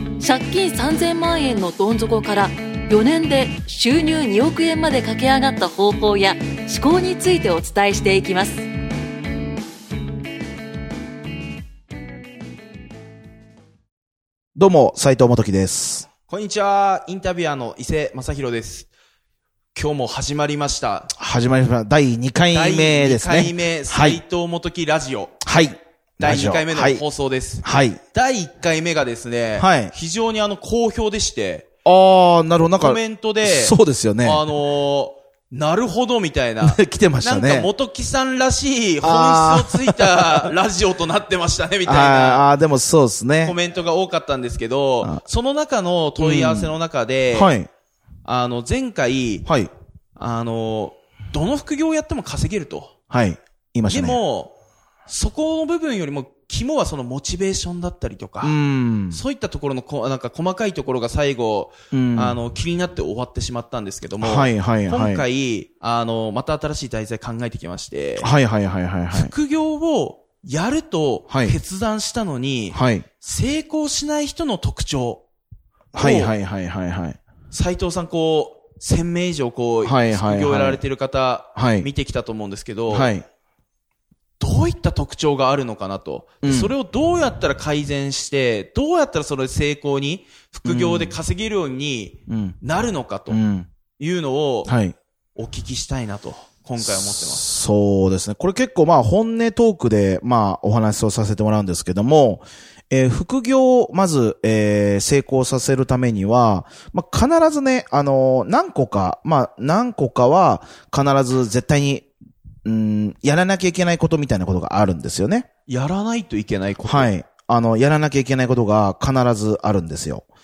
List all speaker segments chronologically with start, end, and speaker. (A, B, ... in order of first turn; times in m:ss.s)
0:00.2-0:08.6 A
0:14.6-0:16.1 B
0:16.3-0:18.9 C
0:19.7-0:21.1 C
0:21.1-0:24.2 B
0:22.5-0:25.3 C
0:25.4-0:27.0 B
0:26.2-0:31.7 C
0:27.6-0:28.0 B
0:29.6-0:29.9 B
0:31.8-0:34.4 B
0:32.8-0:42.5 C
0:36.6-0:37.7 B
0:39.0-0:40.5 B
0:41.8-0:43.6 B
0:43.4-0:47.6 C
0:46.2-0:46.8 B
0:47.3-0:47.7 B
0:48.2-0:49.5 C
0:49.4-0:49.7 B
0:50.2-0:52.9 C
0:53.1-0:54.2 B
0:53.9-0:54.5 C
0:55.1-0:58.6 C
0:58.4-0:59.2 B
0:59.1-1:08.3 C
1:01.9-1:02.4 B
1:04.2-1:05.2 B
1:08.2-1:09.3 B
1:09.1-1:15.2 C
1:11.3-1:11.6 B
1:12.7-1:13.0 B
1:15.9-1:16.3 C
1:15.9-1:17.2 B
1:17.5-1:23.2 C
1:19.8-1:20.8 B
1:21.6-1:21.9 B
1:22.9-1:23.2 B
1:24.4-1:33.4 C
1:26.4-1:26.7 B
1:30.6-1:31.2 B
1:32.3-1:32.6 B
1:33.3-1:33.7 B
1:34.0-1:34.7 C
1:34.7-1:34.9 B
1:35.4-1:37.4 C
1:36.8-1:52.1 B
1:52.6-1:55.5 B
1:55.7-1:57.1 C
1:56.8-2:00.3 B